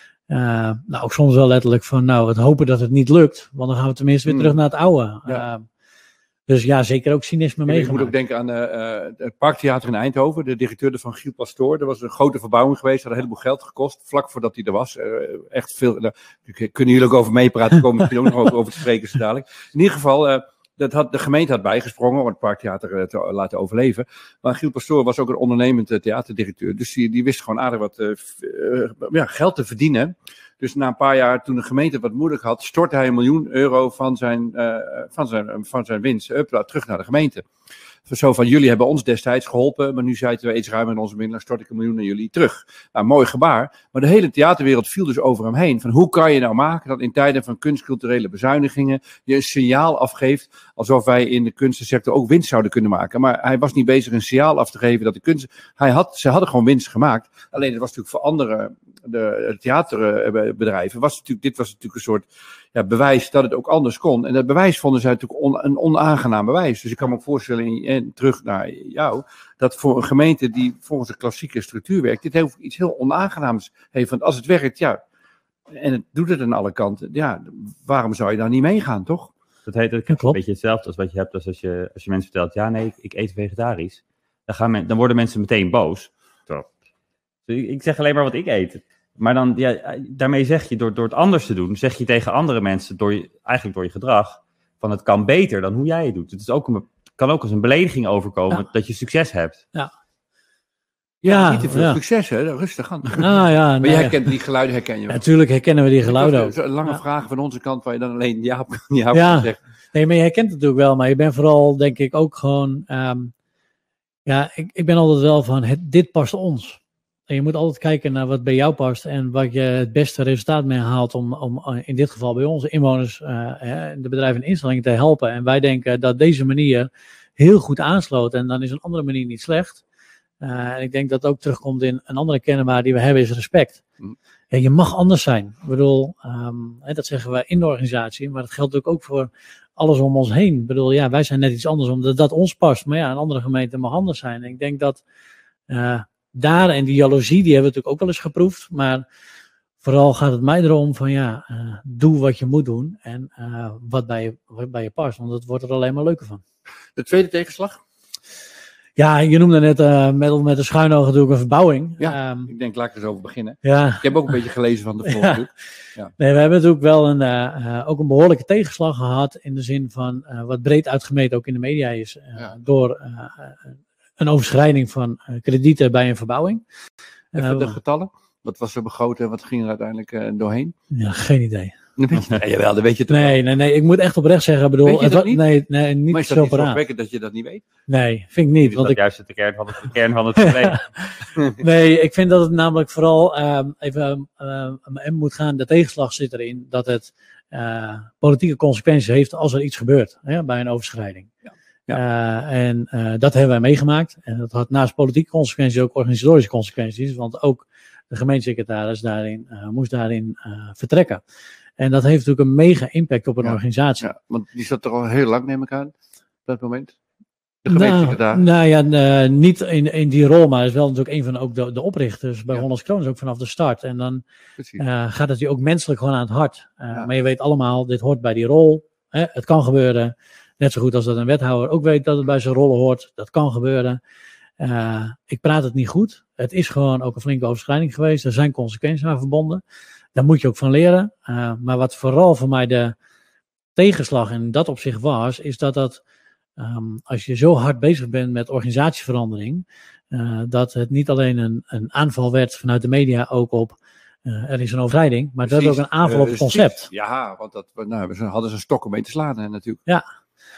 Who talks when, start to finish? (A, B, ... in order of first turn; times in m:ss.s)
0:00.3-0:05.6 A
0:04.3-0:04.6 B
0:06.5-0:08.1 A
0:07.7-0:37.5 B
0:38.1-1:15.0 B
1:15.7-1:19.3 B
1:19.7-1:26.8 C
1:20.1-1:20.4 A
1:27.5-1:39.6 C
1:41.2-1:45.2 B
1:41.2-1:42.0 A
1:43.2-1:44.3 A
1:45.1-1:47.0 A
1:46.0-1:49.6 B
1:49.1-1:53.3 A
1:54.3-1:56.8 A
1:57.3-2:09.8 A
2:10.4-2:13.8 A
2:14.5-2:25.0 A
2:25.7-2:29.0 A
2:29.8-2:36.4 A
2:37.0-2:37.8 B
2:39.0-2:42.5 A
2:42.0-2:46.1 B
2:43.6-2:44.4 A
2:45.1-2:45.4 A
2:46.2-2:56.6 A
2:57.3-2:57.8 A
2:57.4-3:00.7 B
3:00.9-3:01.7 A
3:02.0-3:03.4 B
3:03.1-3:06.8 A
3:04.8-3:05.4 B
3:06.1-3:07.6 B
3:07.9-3:09.0 A
3:08.6-3:10.8 C
3:10.4-3:10.8 A
3:11.4-3:11.6 B
3:11.6-3:21.3 A
3:21.5-3:22.0 B
3:21.9-3:31.2 A
3:31.8-3:34.0 A
3:33.4-3:35.9 B
3:36.5-3:37.0 B
3:37.6-3:38.4 B
3:37.7-3:44.2 A
3:44.8-3:54.0 A
3:54.6-3:59.6 A
4:00.2-4:03.0 A
4:03.8-4:06.0 A
4:06.6-4:16.9 A
4:15.4-4:19.8 B